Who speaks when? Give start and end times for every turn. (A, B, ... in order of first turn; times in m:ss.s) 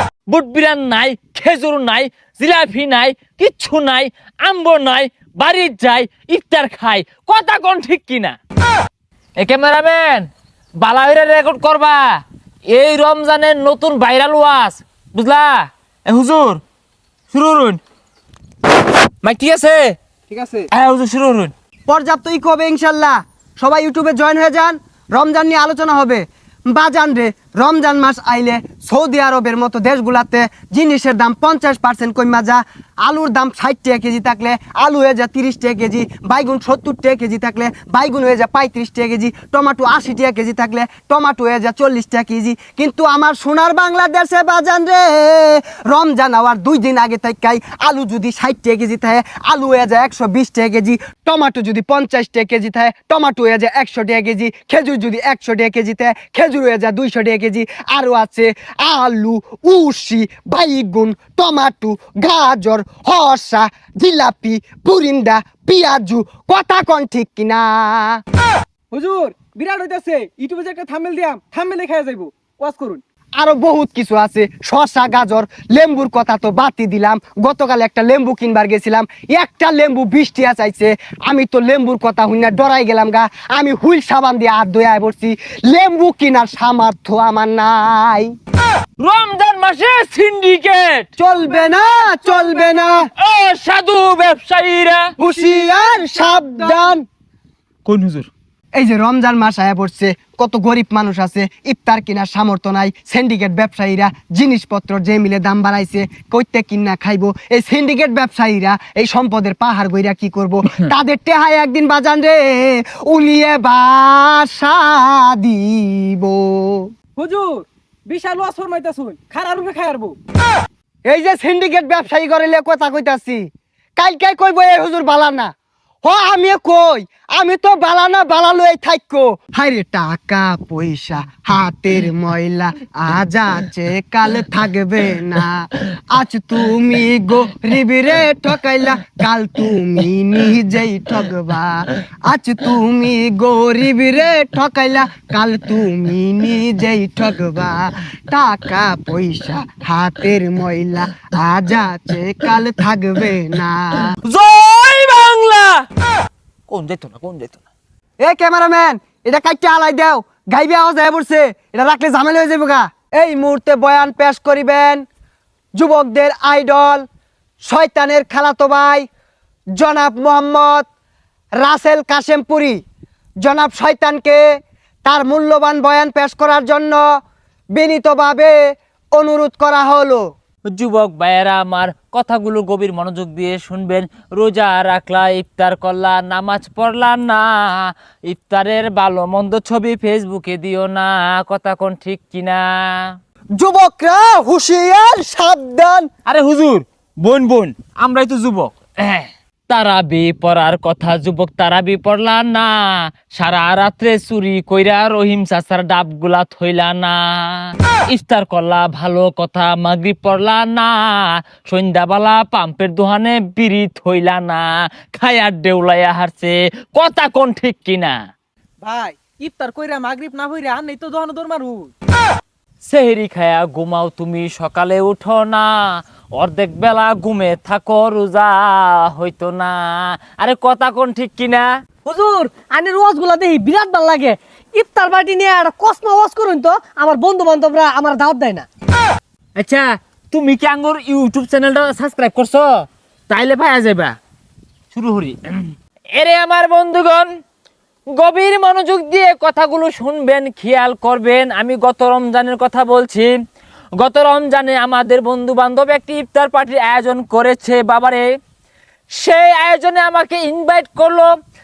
0:00.3-0:08.4 A
0:09.4-0:10.3 A
0:10.8-0:12.2 A
0:12.7-0:16.6 A
0:17.3-0:17.8 A
0:19.2-0:20.0 A
0:20.3-0:20.7 B
0:20.7-0:21.5 A
0:21.9-1:08.2 C
1:08.9-1:13.0 B
1:13.4-1:28.3 C
1:29.0-1:31.1 A
1:31.2-1:33.1 C
1:31.7-1:32.7 B
1:33.2-1:35.1 A
1:35.2-1:37.0 C
1:35.3-1:36.1 B
1:37.9-1:38.3 A
1:38.8-1:56.9 C
1:57.2-2:00.2 B
2:01.1-2:03.4 C
2:04.0-2:05.5 C
2:06.0-2:34.2 C
2:34.2-2:35.9 A
2:36.7-2:37.6 A
2:38.2-2:45.0 C
2:45.8-2:47.1 C
2:47.6-2:49.1 C
2:49.8-2:50.9 C
2:51.6-2:52.8 C
2:53.4-2:54.4 C
2:55.0-2:57.0 C
2:57.8-2:58.6 C
2:59.2-3:00.2 C
3:00.7-3:13.2 A
3:13.6-3:16.1 C
3:16.3-3:38.2 A
3:38.8-3:41.9 B
3:42.8-3:51.7 A
3:52.0-3:58.7 D
3:59.6-4:04.2 A
4:04.9-4:07.3 A
4:08.1-4:13.3 A
4:14.0-4:18.2 A
4:19.2-4:21.3 A